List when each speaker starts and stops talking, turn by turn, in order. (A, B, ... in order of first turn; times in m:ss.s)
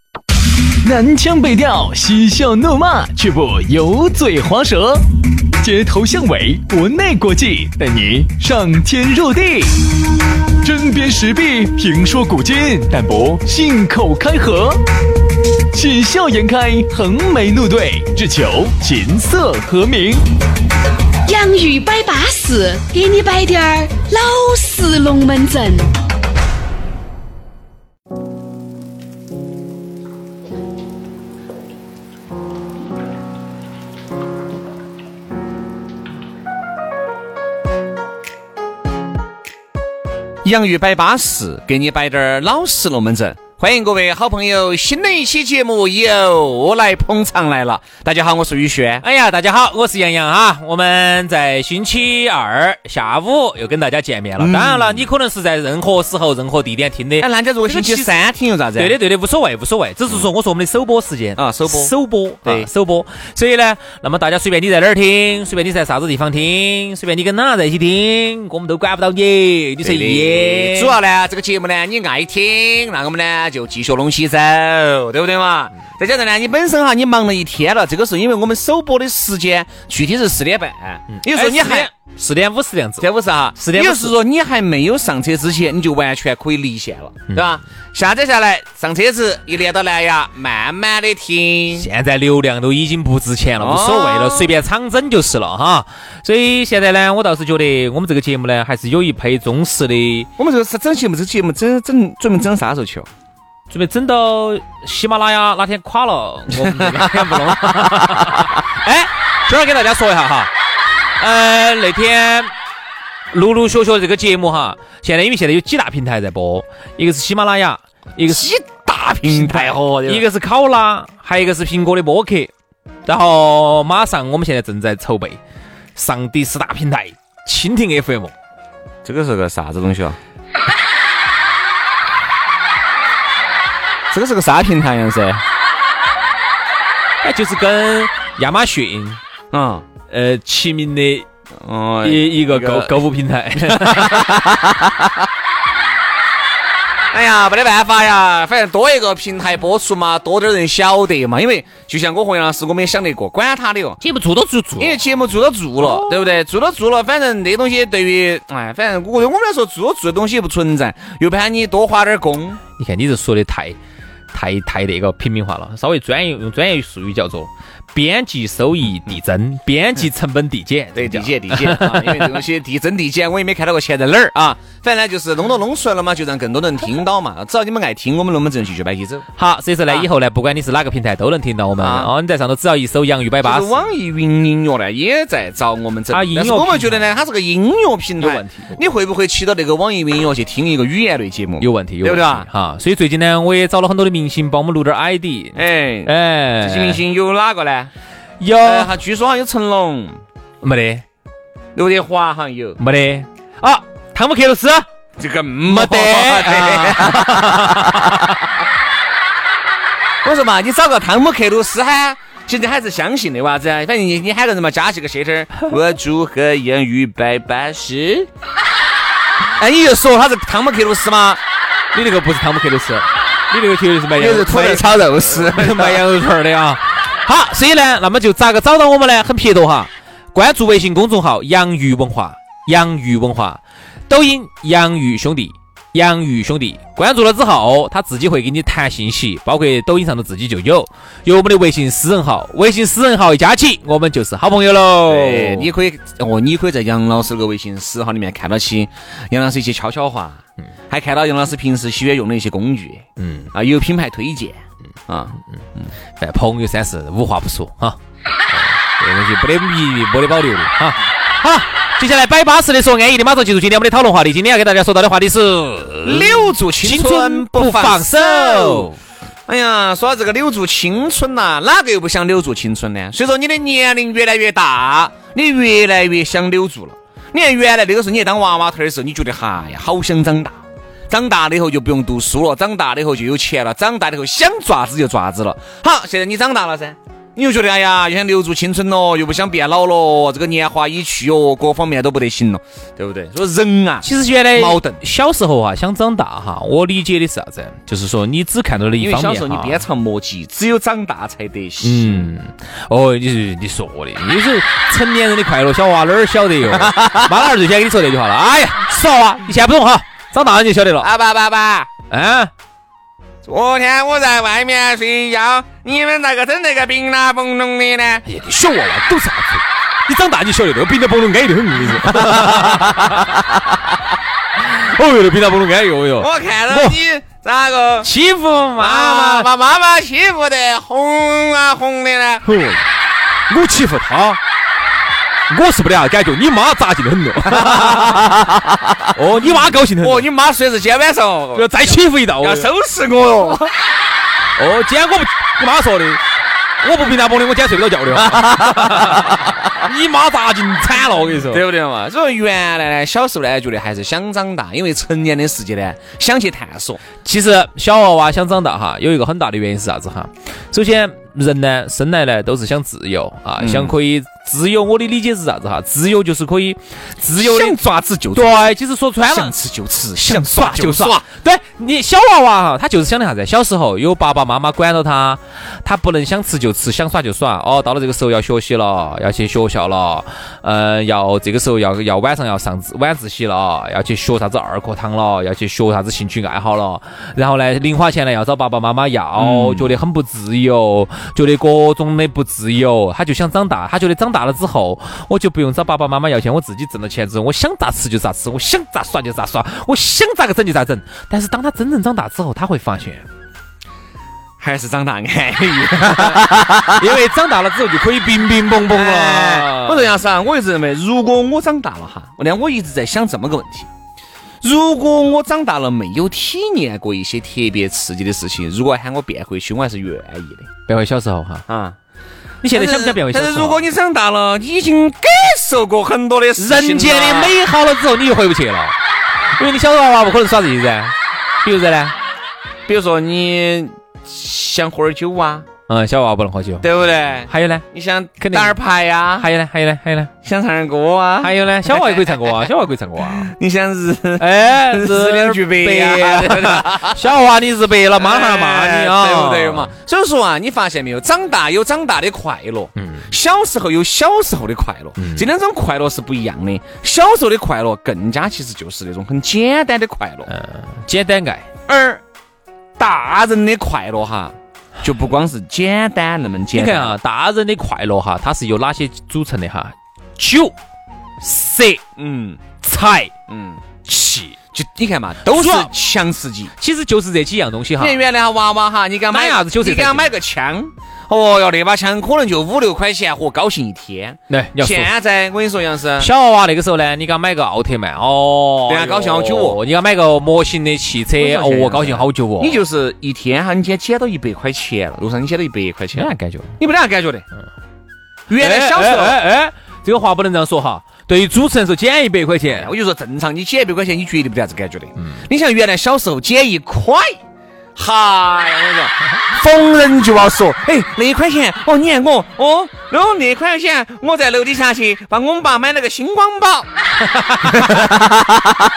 0:00.8-0:05.0 A
0:05.6-0:09.8 A
0:10.6-0:14.8 A
0:15.7-0:20.2 A
0:21.2-0:25.9 B
0:40.4-0:49.0 C
0:49.0-0:58.1 D
0:54.4-0:55.1 C
0:57.2-0:59.0 C
0:58.8-1:11.0 D
1:01.4-1:02.7 C
1:09.8-1:21.9 C
1:21.1-1:24.2 D
1:23.0-1:31.9 C
1:31.7-1:40.3 D
1:33.6-1:34.5 C
1:40.4-1:43.1 C
1:43.7-1:50.5 D
1:46.5-1:48.5 C
1:51.2-1:52.5 D
1:53.3-2:02.5 D
1:58.3-2:00.3 C
2:03.0-2:05.4 D
2:06.0-2:08.3 D
2:09.0-2:10.2 C
2:14.1-2:15.4 C
2:17.2-2:19.2 D
2:19.5-2:19.8 C
2:20.1-2:21.2 D
2:21.6-2:22.9 C
2:22.0-2:24.6 D
2:23.5-2:25.2 C
2:27.1-2:34.0 C
2:34.0-2:35.0 D
2:34.8-2:42.6 C
2:35.8-2:36.1 D
2:42.7-2:43.8 D
2:44.3-2:52.4 D
2:51.0-2:59.3 C
2:59.4-3:03.8 D
3:01.8-3:02.1 C
3:03.4-3:12.5 C
3:06.1-3:06.9 D
3:08.2-3:08.8 D
3:11.6-3:17.0 D
3:15.5-3:17.9 C
3:18.4-3:18.9 D
3:18.6-3:20.2 C
3:20.6-3:21.0 D
3:21.7-3:22.8 C
3:22.8-3:24.8 D
3:25.2-3:28.3 C
3:25.6-3:28.3 D
3:30.2-3:38.3 C
3:39.4-3:41.4 C
3:41.9-4:05.7 D
3:44.2-3:46.0 C
4:05.0-4:15.9 C
4:13.2-4:13.5 D
4:16.2-4:18.0 D
4:18.5-4:29.0 D
4:26.0-4:28.9 C
4:29.5-4:55.0 C
4:54.0-4:59.8 D
4:59.0-5:02.3 C
5:01.8-5:11.1 D
5:06.6-5:07.5 C
5:11.0-5:11.9 C
5:12.1-5:12.5 D
5:13.4-5:18.2 C
5:18.2-5:23.6 D
5:22.0-5:23.2 C
5:24.6-5:27.0 D
5:26.2-5:28.1 C
5:28.0-5:29.5 D
5:28.8-5:32.4 C
5:32.4-5:32.8 D
5:33.5-5:34.4 D
5:35.5-5:38.5 D
5:37.5-5:38.9 C
5:39.1-5:40.3 D
5:39.4-5:43.7 C
5:41.5-5:42.7 D
5:44.6-5:46.2 D
5:46.8-5:51.6 D
5:48.2-5:49.5 C
5:51.5-5:57.0 C
5:57.2-6:07.8 D
6:03.6-6:03.9 C
6:07.4-6:08.7 C
6:08.3-6:09.5 D
6:09.3-6:11.2 C
6:10.1-6:43.2 D
6:29.4-6:29.9 C
6:44.6-6:47.1 C
6:46.1-6:50.1 D
6:48.9-6:53.9 C
6:54.6-7:00.7 C
7:00.9-7:01.6 D
7:01.7-7:02.0 C
7:02.6-7:03.8 D
7:02.7-7:07.6 C
7:06.6-7:09.0 D
7:09.6-7:12.1 D
7:12.9-7:15.7 C
7:15.9-7:16.9 D
7:16.8-7:19.5 C
7:17.5-7:17.8 D
7:18.4-7:18.8 D
7:19.4-7:20.3 D
7:20.4-7:22.7 C
7:21.4-7:23.5 D
7:23.2-7:27.3 C
7:24.4-7:29.9 D
7:28.2-7:40.5 C
7:33.0-7:33.3 D
7:35.2-7:35.5 D
7:40.5-7:41.7 D
7:41.9-7:42.2 C
7:43.0-7:47.1 C
7:46.7-7:50.7 D
7:51.4-7:52.0 D
7:52.2-7:52.6 C
7:52.8-7:53.3 D
7:53.5-7:53.8 C
7:54.0-7:54.6 D
7:54.7-7:56.7 C
7:55.5-7:55.9 D
7:56.8-7:58.2 D
7:58.0-8:06.3 C
7:59.3-8:00.3 D
8:04.5-8:05.1 D
8:06.2-8:12.8 D
8:08.9-8:09.8 C
8:11.4-8:17.4 C
8:16.1-8:16.8 D
8:18.5-8:19.4 C
8:18.6-8:22.9 D
8:22.7-8:27.4 C
8:28.0-8:36.9 C
8:37.2-8:38.4 D
8:37.6-8:38.3 C